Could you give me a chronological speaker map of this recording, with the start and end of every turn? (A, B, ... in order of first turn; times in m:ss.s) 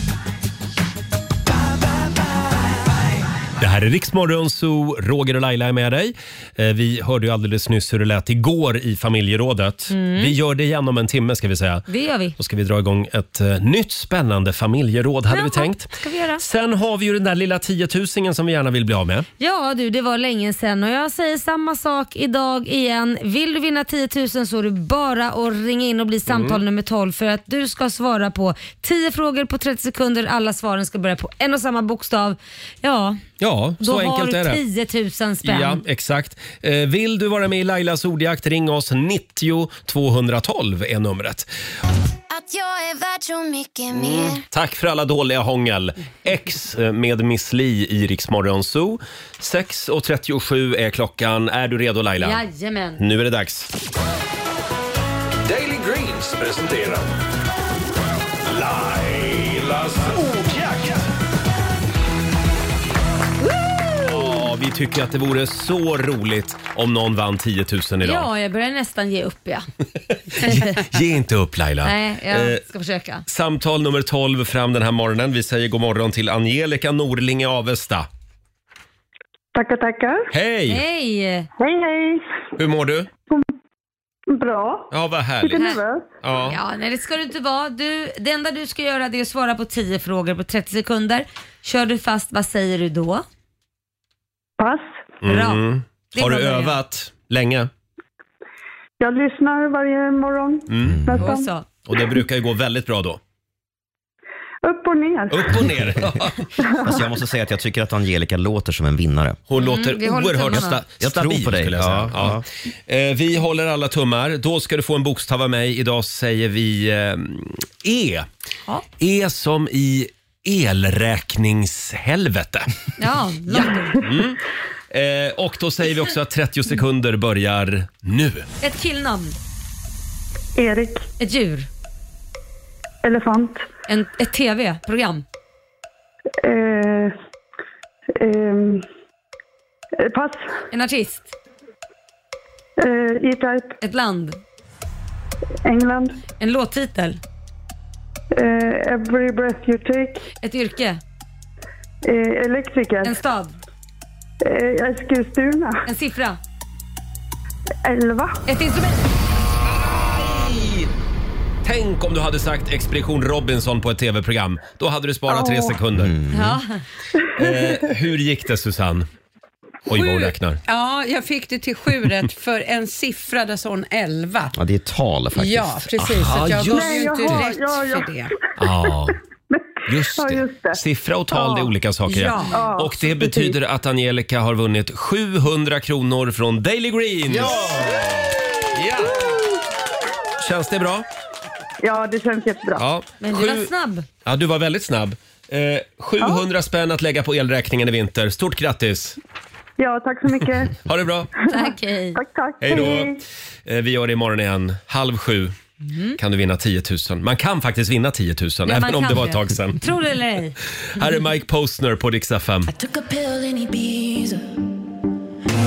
0:03.6-0:19.3 A
0:09.9-0:10.4 B
0:11.9-0:12.4 B
0:15.3-0:16.4 B
0:19.4-0:33.2 B
0:26.3-0:26.6 A
0:33.4-0:34.6 A
0:33.8-0:35.8 B
0:35.4-0:41.5 A
0:42.3-0:44.4 C
0:44.0-0:52.4 A
0:52.2-0:53.0 B
0:53.0-0:53.7 A
0:55.4-0:57.1 D
0:58.4-1:01.1 D
1:04.0-1:08.3 A
1:08.0-1:09.7 B
1:10.4-1:12.6 A
1:10.4-1:10.7 B
1:11.8-1:13.2 B
1:13.3-1:18.1 A
1:19.6-1:20.3 E
1:20.3-1:20.8 A
1:20.7-1:21.5 B
1:21.6-1:22.4 E
1:22.6-1:23.1 A
1:24.3-1:26.1 E
1:24.9-1:25.6 A
1:25.5-1:25.8 B
1:26.2-1:26.6 A
1:26.5-1:33.2 B
1:34.6-1:35.0 E
1:35.2-1:37.7 A
1:35.2-1:35.6 B
1:36.1-1:36.8 B
1:39.0-1:42.0 E
1:40.7-1:41.1 A
1:40.8-1:41.2 F
1:41.2-1:41.6 B
1:41.9-1:43.2 A
1:44.6-1:45.6 E
1:45.3-1:46.5 A
1:46.6-1:47.0 E
1:46.8-1:49.4 F
1:49.5-1:58.3 A
1:49.6-1:50.8 B
1:51.0-1:52.4 F
1:59.0-2:02.7 A
2:03.0-2:04.0 B
2:03.5-2:08.5 A
2:08.6-2:09.4 B
2:10.6-2:11.1 E
2:11.2-2:11.7 B
2:13.0-2:13.7 E
2:13.9-2:15.2 B
2:16.4-2:17.2 E
2:18.2-2:18.8 E
2:20.0-2:20.5 E
2:20.7-2:21.3 B
2:22.8-2:23.8 E
2:23.8-2:24.4 B
2:25.6-2:26.2 E
2:26.4-2:27.2 B
2:28.3-2:30.2 E
2:30.4-2:31.0 B
2:32.0-2:33.2 E
2:33.0-2:33.6 B
2:34.4-2:35.8 E
2:35.9-2:36.4 B
2:37.8-2:38.4 E
2:38.5-2:39.1 B
2:39.9-2:40.9 A
2:41.6-2:46.1 A
2:45.3-2:45.8 E
2:46.0-2:46.6 F
2:46.3-2:46.8 B
2:47.4-2:47.8 E
2:47.4-2:49.1 A
2:49.9-2:50.6 A
2:49.9-2:54.6 G
2:54.6-2:56.4 F
2:55.4-2:58.3 G
2:56.1-2:57.4 A
2:56.6-2:58.1 E
2:58.6-2:59.2 A
2:58.6-2:58.9 E
2:59.5-3:00.8 E
2:59.9-3:09.4 A
3:01.3-3:01.7 E
3:02.1-3:02.7 G
3:02.5-3:03.5 E
3:07.3-3:07.6 F
3:10.4-3:11.1 A
3:11.8-3:12.8 E
3:12.8-3:13.7 A
3:13.2-3:14.1 B
3:14.2-3:19.2 A
3:19.8-3:20.8 E
3:20.8-3:21.3 A
3:21.5-3:22.2 B
3:22.2-3:23.2 E
3:22.6-3:25.6 A
3:25.8-3:26.2 B
3:26.2-3:29.8 A
3:28.7-3:30.6 B
3:31.0-3:32.7 A
3:32.7-3:34.5 C